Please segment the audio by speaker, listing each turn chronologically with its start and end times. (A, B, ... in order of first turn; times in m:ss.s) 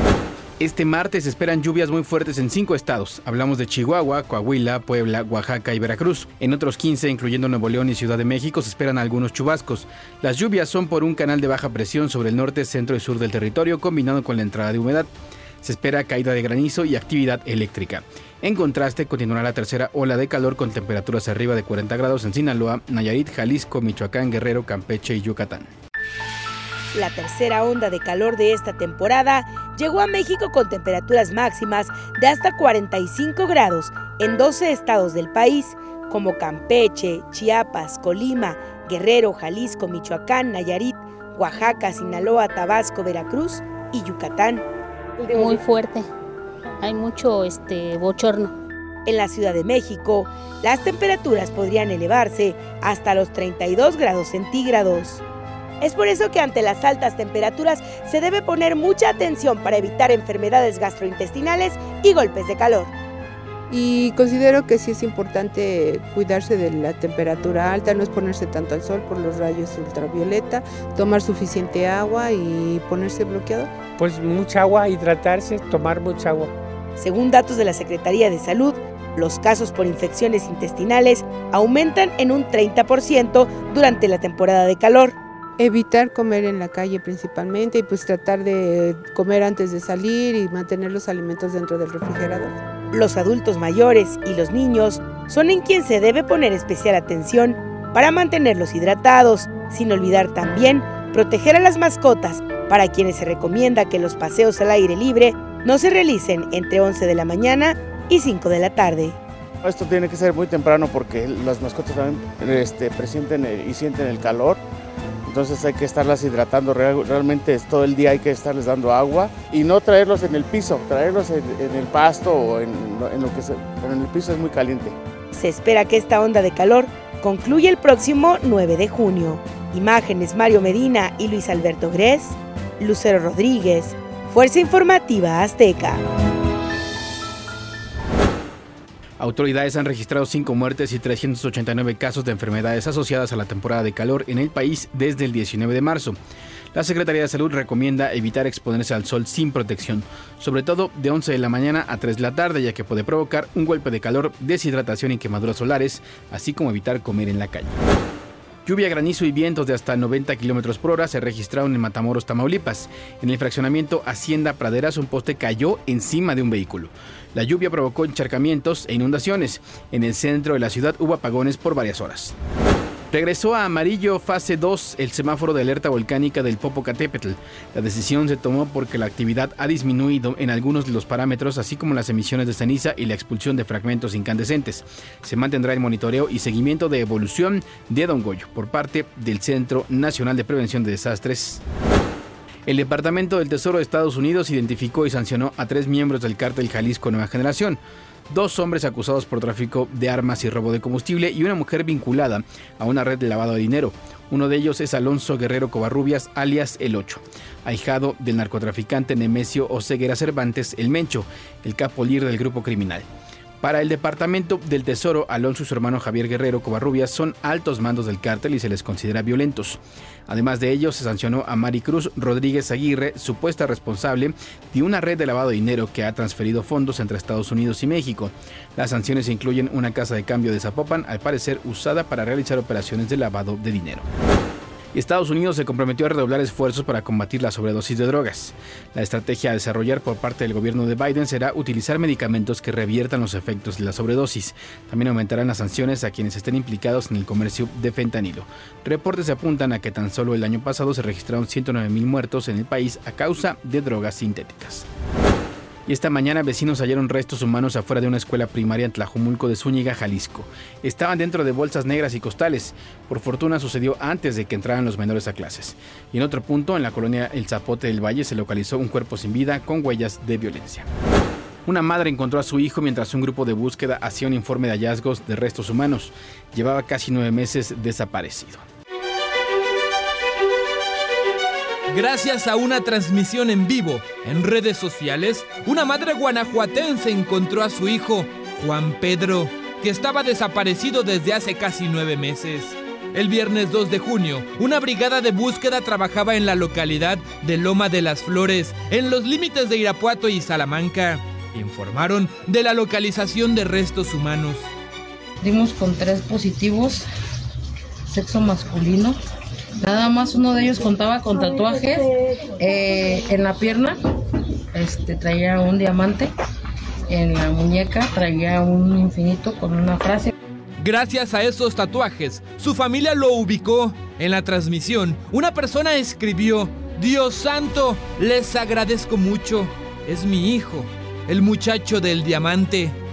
0:00.6-0:15.1 A
0:15.6-0:25.7 A
0:26.9-0:44.6 B
0:45.2-0:46.1 C
0:46.8-0:48.5 C
0:49.1-0:55.2 B
0:55.8-1:02.9 B
1:03.7-1:13.7 D
1:14.0-1:16.5 E
1:17.0-1:25.2 B
1:25.6-1:32.6 D
1:32.9-1:49.2 B
1:49.6-1:54.6 F
1:55.3-2:05.0 F
2:05.3-2:16.0 B
2:19.2-2:26.2 A
2:26.7-2:37.8 A
2:38.7-2:52.4 A
2:53.1-3:11.6 A
3:12.7-3:33.1 A
3:33.6-3:54.1 A
3:54.9-4:14.9 A
4:15.9-4:30.9 A
4:31.6-4:38.6 A
4:41.9-5:04.7 G
5:05.4-5:07.1 H
5:08.1-5:09.2 H
5:09.8-5:14.0 H
5:14.7-5:16.3 H
5:17.1-5:20.3 H
5:20.8-5:33.0 G